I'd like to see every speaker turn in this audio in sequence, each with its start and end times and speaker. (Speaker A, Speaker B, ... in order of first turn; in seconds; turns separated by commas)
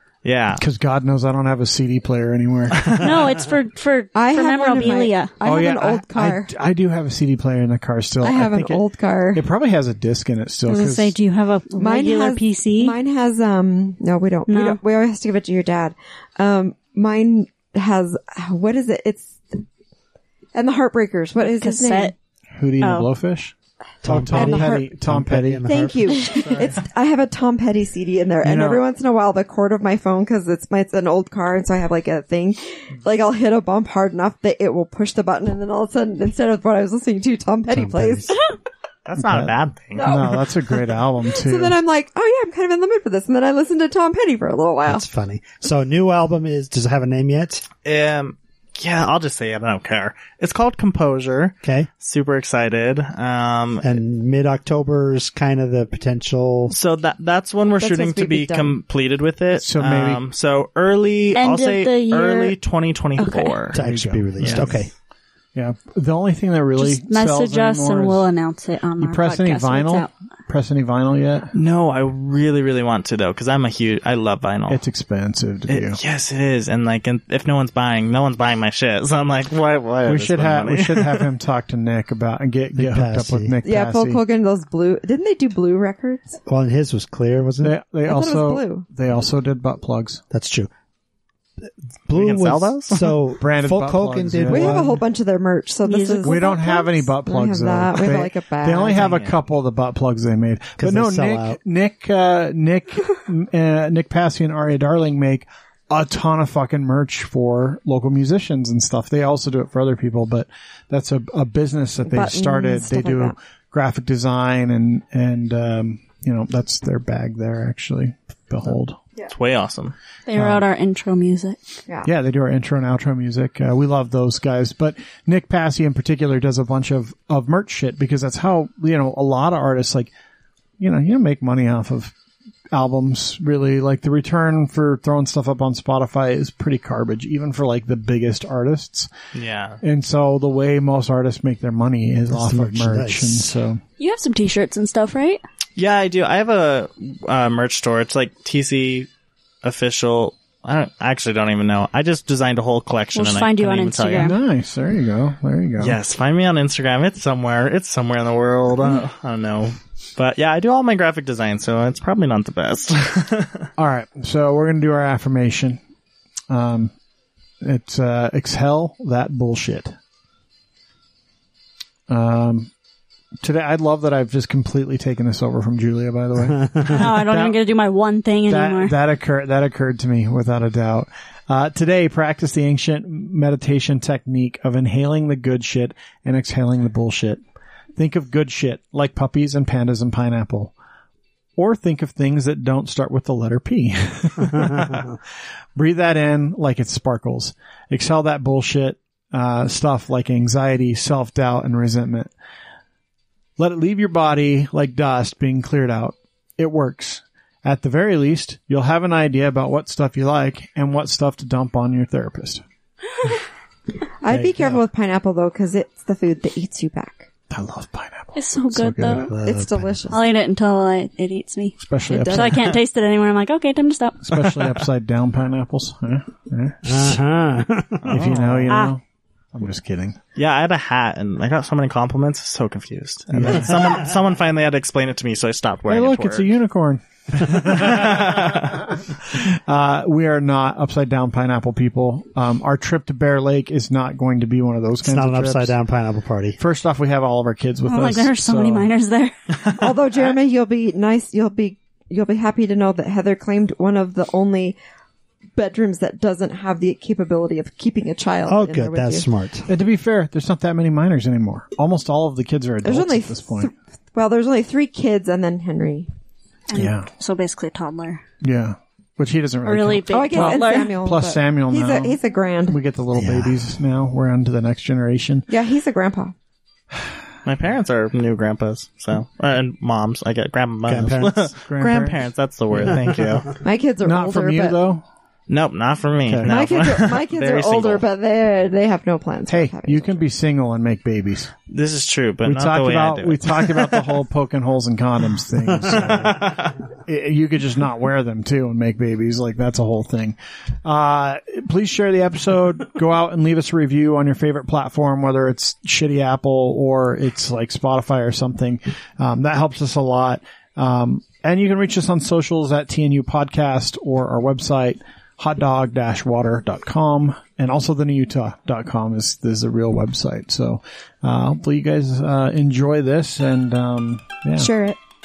Speaker A: 0.2-0.6, Speaker B: 0.6-2.9, Speaker A: 2.8-3.1, Speaker C: 3.0-5.3, Speaker D: 4.2-6.5, Speaker B: 5.4-11.1, Speaker D: 8.2-9.5, Speaker C: 10.7-13.0, Speaker D: 11.8-19.6, Speaker C: 14.5-14.8, Speaker D: 20.5-22.1, Speaker C: 21.4-22.1, Speaker B: 22.6-26.7, Speaker C: 22.8-23.1, Speaker E: 24.0-26.3, Speaker D: 24.3-24.8, Speaker D: 25.6-38.4, Speaker B: 28.4-28.9, Speaker E: 37.7-38.3, Speaker A: 39.1-40.2, Speaker B: 39.2-41.8, Speaker D: 40.0-45.0, Speaker E: 44.9-47.6, Speaker A: 47.9-53.9, Speaker E: 51.6-51.9, Speaker E: 53.8-56.8, Speaker A: 56.7-63.9, Speaker D: 57.8-58.8, Speaker B: 59.6-60.2, Speaker C: 61.4-62.6, Speaker C: 63.2-63.6, Speaker E: 63.7-64.9, Speaker B: 63.8-64.9, Speaker A: 64.4-64.7, Speaker B: 65.5-68.3, Speaker C: 66.8-70.1, Speaker B: 69.0-71.5, Speaker A: 71.5-74.8, Speaker B: 74.7-76.0, Speaker A: 75.7-81.3, Speaker B: 80.1-84.2, Speaker E: 82.8-83.5, Speaker D: 83.6-86.4, Speaker E: 86.5-87.8, Speaker B: 87.6-90.2, Speaker D: 88.1-88.9, Speaker E: 90.3-90.7, Speaker E: 91.6-95.0, Speaker A: 92.1-93.2, Speaker B: 93.4-94.9, Speaker D: 94.5-99.1, Speaker C: 95.8-96.6, Speaker B: 96.2-119.0, Speaker A: 99.0-99.3, Speaker E: 100.8-101.6, Speaker D: 112.1-113.3, Speaker A: 119.3-120.0, Speaker C: 120.3-121.6, Speaker B: 120.4-120.6, Speaker B: 122.0-130.1, Speaker B: 130.8-132.1, Speaker B: 132.7-139.1, Speaker A: 139.3-139.8, Speaker B: 139.8-143.8, Speaker E: 142.3-143.5, Speaker C: 144.0-145.4, Speaker A: 145.8-149.1, Speaker A: 149.6-154.3, Speaker C: 153.1-154.3, Speaker B: 154.2-156.0, Speaker A: 155.8-163.7, Speaker B: 163.8-165.8, Speaker B: 166.5-166.9, Speaker B: 167.6-170.0, Speaker B: 172.1-172.7, Speaker B: 173.4-177.6, Speaker C: 176.9-178.9, Speaker B: 178.5-187.4, Speaker B: 188.0-190.7, Speaker B: 191.6-195.1, Speaker B: 195.8-202.3, Speaker B: 203.6-212.6, Speaker D: 214.2-217.3, Speaker E: 214.3-214.8, Speaker B: 217.5-219.3, Speaker C: 218.3-219.3, Speaker E: 219.3-220.2, Speaker D: 219.4-220.2, Speaker C: 220.1-224.2, Speaker B: 221.8-222.7, Speaker D: 222.1-222.6, Speaker B: 224.2-227.2, Speaker A: 224.5-224.8, Speaker E: 226.9-228.7, Speaker B: 228.0-229.0, Speaker C: 228.7-228.9, Speaker B: 229.5-230.2, Speaker A: 230.3-236.5, Speaker B: 233.3-233.8, Speaker B: 235.9-245.8, Speaker A: 237.5-238.8, Speaker E: 245.0-246.6, Speaker B: 246.6-248.9, Speaker C: 247.9-249.6, Speaker D: 249.8-254.8, Speaker D: 255.6-259.3, Speaker E: 258.5-259.7, Speaker B: 259.7-263.7, Speaker D: 262.8-266.1, Speaker C: 266.7-268.2, Speaker B: 266.7-267.1, Speaker B: 268.4-275.5, Speaker C: 269.6-271.0, Speaker D: 270.1-272.8, Speaker E: 273.1-273.6, Speaker D: 275.5-276.3, Speaker A: 277.4-283.6, Speaker E: 280.9-281.5, Speaker B: 281.6-283.0, Speaker D: 283.6-284.8, Speaker B: 284.0-285.0, Speaker A: 285.5-288.1, Speaker B: 286.3-286.6, Speaker D: 286.5-290.2, Speaker B: 289.5-291.5, Speaker A: 291.7-294.2, Speaker B: 292.4-296.5, Speaker A: 295.9-296.8, Speaker B: 297.1-324.7, Speaker D: 324.6-325.0